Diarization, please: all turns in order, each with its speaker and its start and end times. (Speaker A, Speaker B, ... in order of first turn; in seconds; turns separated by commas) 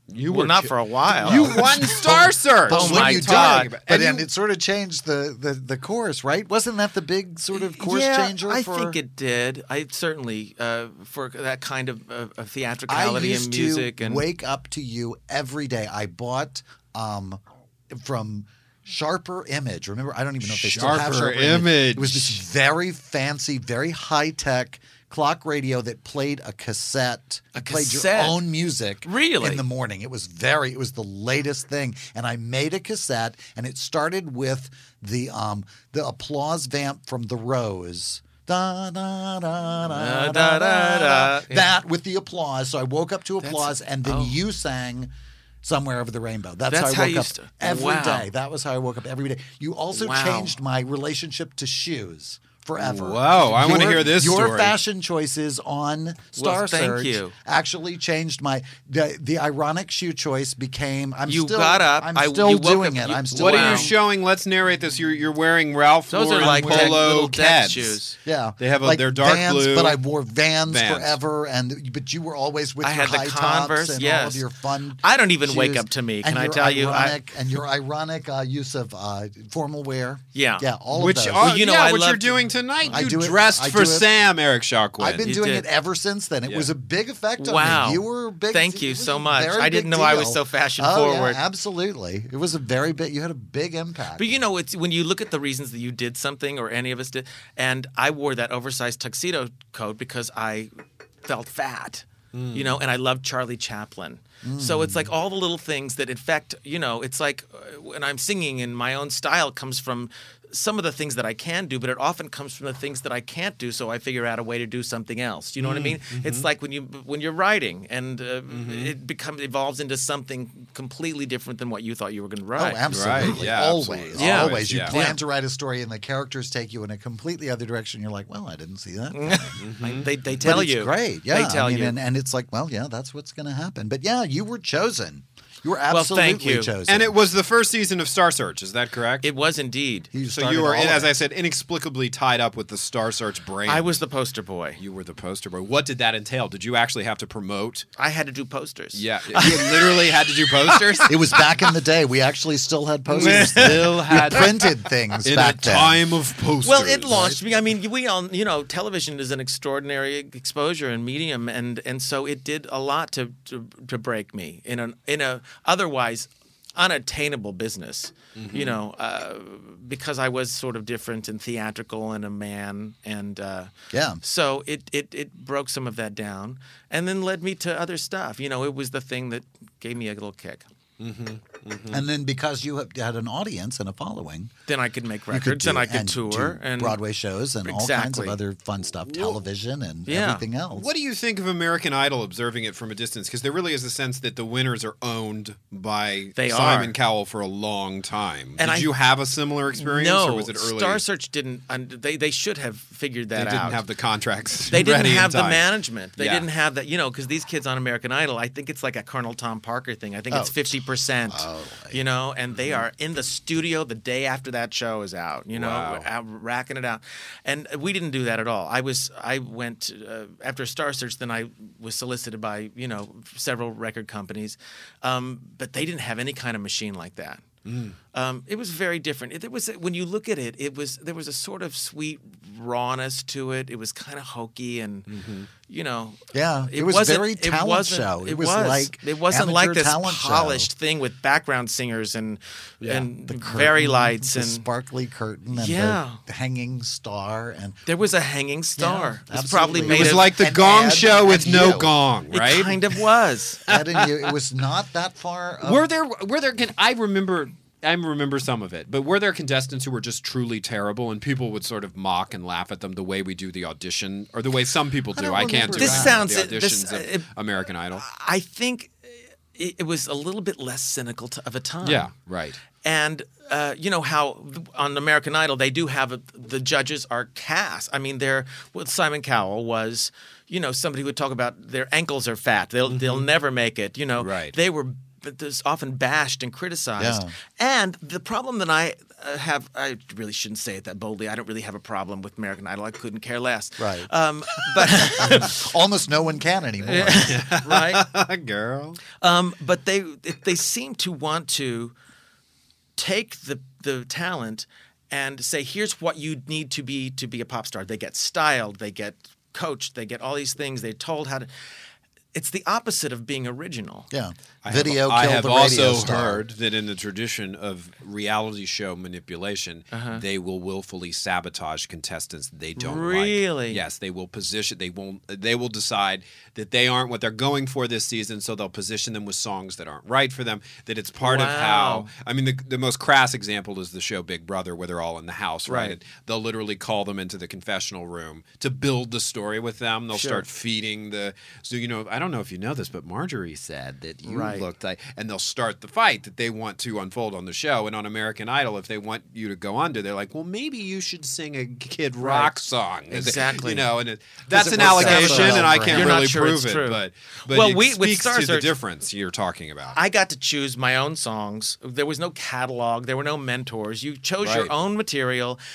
Speaker A: 0.1-4.2, Speaker B: 0.2-2.1, Speaker C: 1.2-9.0, Speaker B: 2.6-3.7, Speaker B: 7.5-14.3, Speaker C: 12.9-45.1, Speaker A: 20.4-22.4, Speaker B: 27.5-28.4, Speaker B: 29.1-29.6, Speaker B: 39.9-41.7, Speaker B: 43.4-44.4, Speaker C: 45.6-63.9, Speaker B: 46.7-48.3, Speaker B: 49.9-50.5, Speaker A: 52.8-54.8, Speaker B: 56.3-57.3, Speaker B: 61.3-63.9, Speaker A: 63.3-68.0, Speaker B: 66.1-68.2, Speaker C: 66.4-67.0, Speaker C: 68.2-81.5, Speaker A: 68.6-70.0, Speaker A: 70.7-71.2, Speaker B: 72.8-74.5, Speaker B: 75.0-77.2, Speaker B: 80.3-80.7, Speaker A: 80.9-85.3, Speaker B: 81.4-83.0, Speaker C: 82.9-84.1, Speaker C: 85.0-94.4, Speaker B: 85.2-85.7, Speaker B: 87.4-91.4, Speaker B: 94.2-100.7, Speaker B: 101.2-123.5, Speaker A: 102.3-102.8, Speaker C: 104.4-105.1, Speaker A: 115.6-116.5, Speaker A: 118.5-119.0, Speaker C: 122.5-129.6, Speaker A: 122.9-125.0, Speaker B: 124.1-125.2, Speaker B: 129.1-132.0, Speaker A: 129.6-130.6, Speaker C: 130.4-137.2, Speaker B: 135.9-136.7, Speaker A: 136.9-139.3, Speaker B: 139.2-140.2, Speaker C: 140.1-141.1, Speaker A: 140.3-144.0, Speaker B: 143.7-144.8, Speaker A: 144.8-147.9, Speaker B: 148.0-151.7, Speaker A: 148.9-151.1, Speaker C: 151.1-156.1, Speaker A: 153.1-154.5, Speaker B: 153.1-154.8, Speaker A: 155.2-157.2, Speaker B: 156.6-180.7, Speaker C: 157.1-157.4, Speaker A: 168.3-168.8, Speaker C: 173.9-174.2, Speaker A: 181.0-182.0, Speaker C: 181.9-184.5, Speaker B: 184.7-187.0, Speaker C: 185.3-190.9, Speaker B: 187.6-188.4, Speaker A: 189.1-189.3, Speaker B: 190.1-190.5, Speaker A: 190.7-201.0, Speaker B: 196.4-196.9, Speaker B: 198.6-198.9, Speaker B: 199.8-203.8, Speaker A: 203.3-205.7, Speaker B: 204.7-227.5, Speaker A: 206.2-206.5, Speaker C: 210.3-212.0, Speaker A: 212.5-212.8, Speaker A: 215.5-216.1, Speaker A: 227.6-228.0, Speaker B: 228.1-244.7, Speaker A: 235.1-235.5, Speaker C: 236.3-240.7, Speaker A: 242.8-243.1, Speaker C: 243.2-247.8, Speaker B: 245.5-246.2, Speaker B: 247.9-250.4, Speaker C: 248.8-252.0, Speaker A: 249.8-253.0, Speaker B: 252.3-253.6, Speaker A: 253.7-254.3, Speaker C: 253.7-255.8, Speaker A: 255.6-268.0, Speaker C: 265.1-266.2, Speaker B: 265.7-267.3, Speaker B: 267.9-272.1, Speaker A: 271.8-272.6, Speaker B: 272.7-295.6, Speaker A: 282.9-283.3, Speaker A: 284.2-284.6, Speaker C: 287.0-287.3, Speaker C: 293.8-294.1, Speaker C: 294.8-297.4, Speaker B: 296.9-298.0, Speaker A: 296.9-299.0, Speaker B: 299.1-301.9, Speaker B: 303.0-311.5, Speaker B: 312.3-314.1, Speaker C: 314.1-316.4, Speaker A: 314.6-360.0, Speaker B: 319.9-320.2, Speaker B: 322.8-323.8, Speaker B: 331.2-332.1, Speaker B: 335.6-336.0, Speaker B: 340.1-340.4, Speaker B: 344.2-344.7, Speaker B: 352.2-352.6, Speaker B: 353.1-353.9, Speaker B: 354.5-358.7, Speaker C: 354.6-356.3, Speaker B: 359.9-365.6, Speaker A: 364.4-364.7